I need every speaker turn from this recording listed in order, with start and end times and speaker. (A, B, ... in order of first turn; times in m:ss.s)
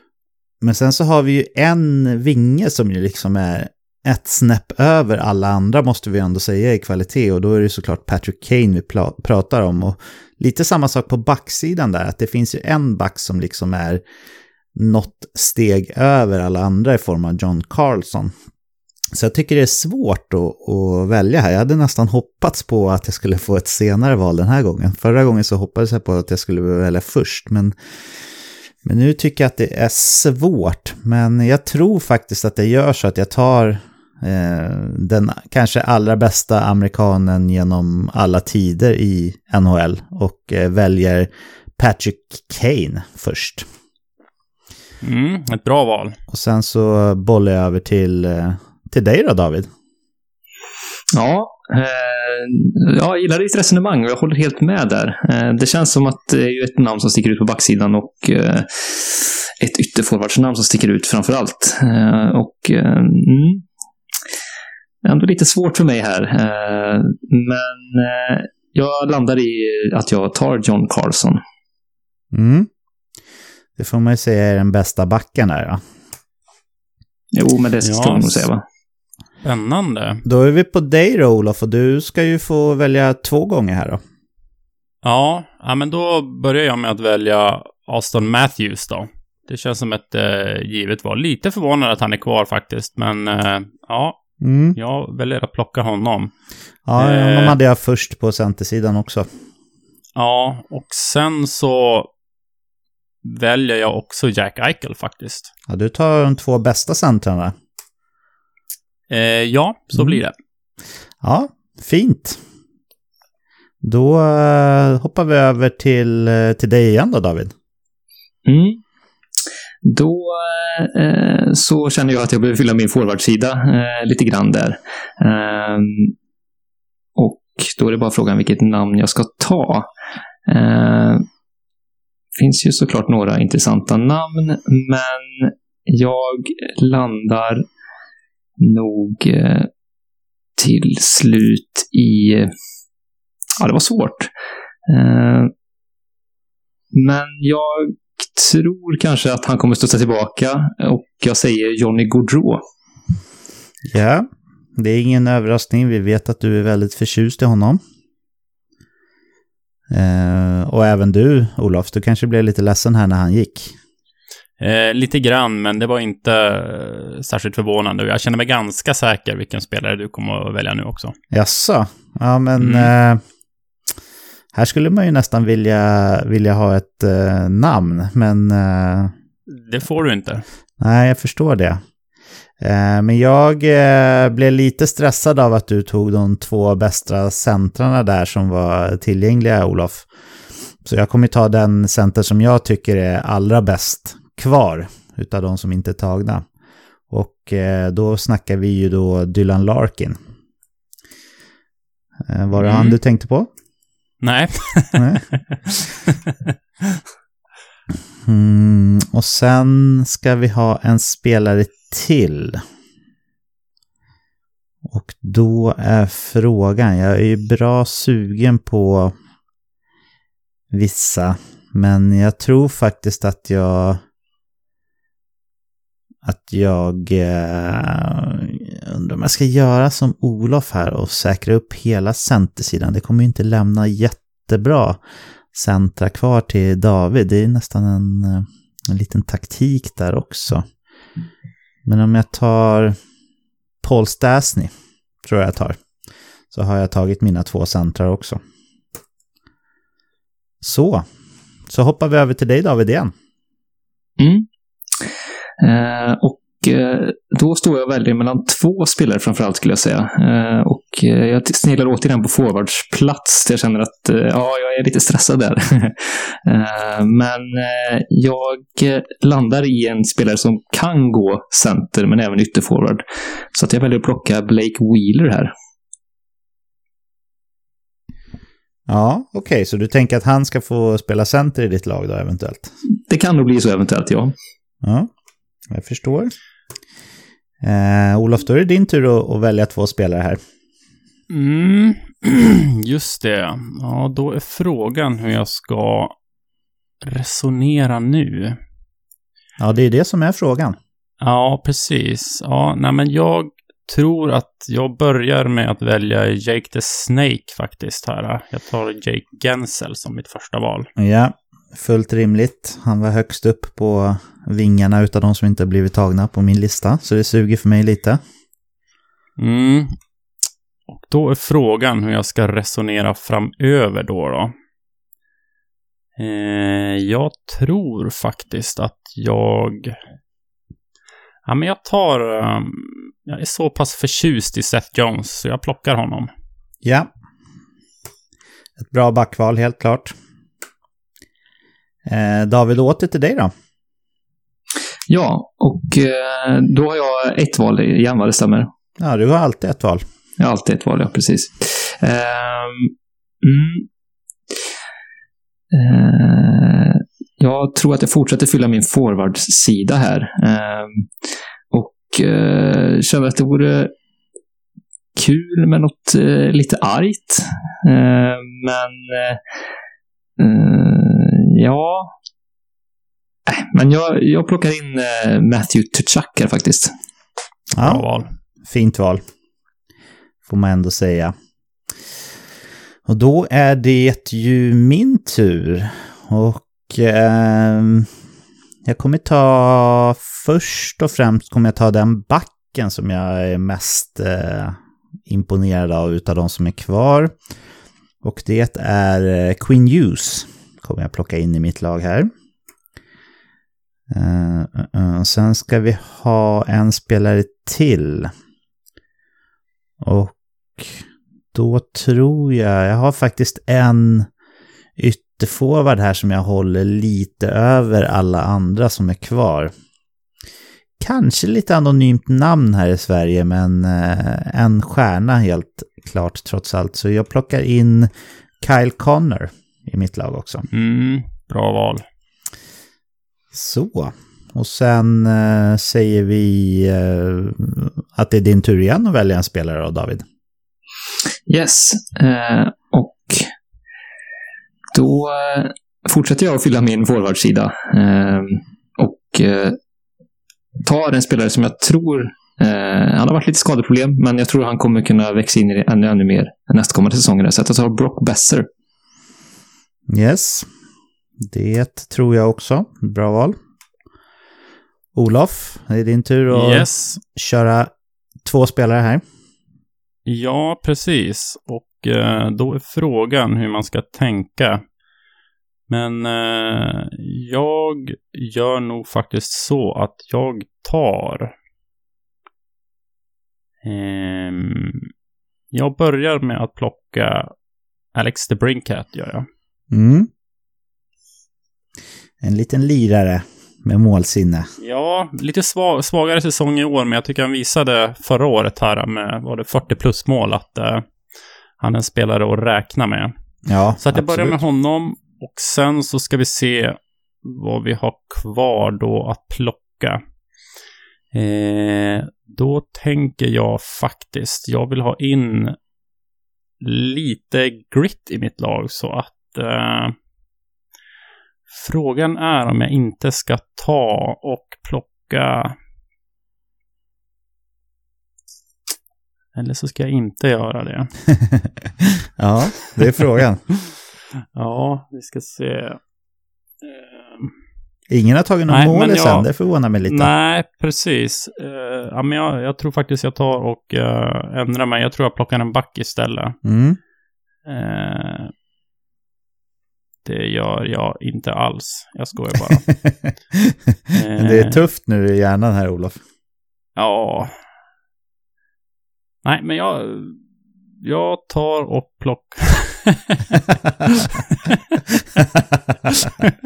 0:00.6-0:14.0 A
0:14.8-0:18.3 A
0:19.1-0:27.7 A
0:28.8-0:43.7 A
0:45.0-0:46.2 B
0:46.3-0:49.7 A
0:51.1-1:03.6 C
1:05.0-1:11.4 C
1:12.3-1:12.7 A
1:13.8-1:15.8 A
1:17.3-1:18.6 C
1:17.8-1:18.5 B
1:19.4-1:20.2 B
1:20.2-1:24.0 A
1:25.0-1:34.2 B
1:34.4-1:34.8 A
1:34.8-1:36.3 B
1:36.9-1:39.3 A
1:37.0-1:37.6 B
1:40.2-1:42.1 B
1:43.2-1:45.5 B
1:45.7-1:47.5 A
1:49.1-1:50.3 B
1:51.2-1:52.4 A
1:53.8-1:57.5 A
1:58.5-1:58.8 C
1:59.8-2:06.1 C
2:07.2-2:09.9 C
2:10.5-2:11.2 C
2:12.4-2:17.6 C
2:18.6-2:19.7 C
2:20.6-2:22.5 C
2:23.6-2:24.3 C
2:24.9-2:25.5 C
2:26.9-2:32.6 C
2:33.9-2:34.3 A
2:34.8-2:37.8 A
2:39.9-2:43.8 A
2:44.6-2:51.2 B
2:51.3-2:53.2 A
2:52.6-2:52.9 B
2:54.5-2:59.1 A
2:59.5-3:00.4 B
3:00.8-3:01.8 A
3:02.6-3:10.1 A
3:10.8-3:16.4 A
3:17.1-3:20.2 A
3:22.3-3:23.5 A
3:22.6-3:23.0 B
3:24.2-3:26.1 B
3:25.0-3:25.2 A
3:28.3-3:32.6 A
3:34.8-3:39.1 A
3:40.7-3:44.0 A
3:46.2-3:55.0 A
3:55.5-4:00.6 A
4:01.9-4:03.0 A
4:03.8-4:04.7 A
4:05.2-4:05.8 A
4:06.5-4:08.4 A
4:10.6-4:11.0 A
4:11.7-4:13.1 A
4:14.2-4:15.1 C
4:15.6-4:35.5 C
4:38.9-4:42.7 A
4:43.1-4:44.3 C
4:44.8-4:45.1 A
4:45.7-4:46.3 A
4:47.6-4:50.4 A
4:51.3-4:56.2 B
4:57.0-4:58.6 B
4:59.6-5:00.8 A
5:01.2-5:10.9 B
5:11.0-5:18.2 A
5:19.4-5:20.0 B
5:20.9-5:24.5 B
5:26.2-5:30.0 B
5:31.5-5:36.3 B
5:36.8-5:37.1 A
5:38.8-5:40.1 A
5:42.1-5:43.5 A
5:45.1-5:48.7 C
5:49.0-5:50.0 A
5:50.4-5:53.9 C
5:55.7-6:01.1 C
6:01.7-6:03.9 C
6:05.2-6:09.4 C
6:10.4-6:12.1 C
6:13.5-6:16.9 C
6:17.7-6:18.0 A
6:17.8-6:18.3 B
6:18.6-6:19.2 A
6:20.5-6:21.3 A
6:23.1-6:28.1 A
6:28.8-6:37.4 A
6:38.2-6:42.3 A
6:44.1-6:48.3 A
6:50.0-6:54.3 A
6:55.0-6:59.7 A
7:01.0-7:08.1 A
7:08.6-7:10.7 A
7:10.7-7:12.0 B
7:13.5-7:20.2 A
7:21.5-7:23.5 C
7:24.9-7:29.8 C
7:30.8-7:38.7 C
7:40.1-7:40.7 A
7:41.4-7:43.6 A
7:45.2-7:47.9 A
7:46.5-7:47.2 B
7:48.4-7:49.2 A
7:50.3-7:54.8 B
7:55.9-8:01.5 B
8:03.8-8:05.1 B
8:05.7-8:07.5 B
8:08.2-8:09.5 B
8:09.9-8:10.3 A
8:12.4-8:14.7 A
8:14.8-8:21.0 B
8:21.8-8:23.3 B
8:23.7-8:24.6 A
8:24.0-8:30.2 B
8:31.3-8:35.8 B
8:36.8-8:40.2 B
8:41.7-8:45.8 B
8:49.6-8:51.1 B
8:51.5-8:53.6 A
8:54.6-8:56.0 B
8:56.8-8:57.5 B
8:58.1-9:00.3 A
8:58.7-8:59.5 B
9:00.0-9:06.6 B
9:06.6-9:07.0 A
9:07.7-9:08.5 B
9:10.2-9:12.8 B
9:13.5-9:16.2 A
9:14.1-9:14.8 B
9:17.0-9:17.5 B
9:19.4-9:20.4 B
9:21.0-9:24.8 B
9:25.4-9:26.3 A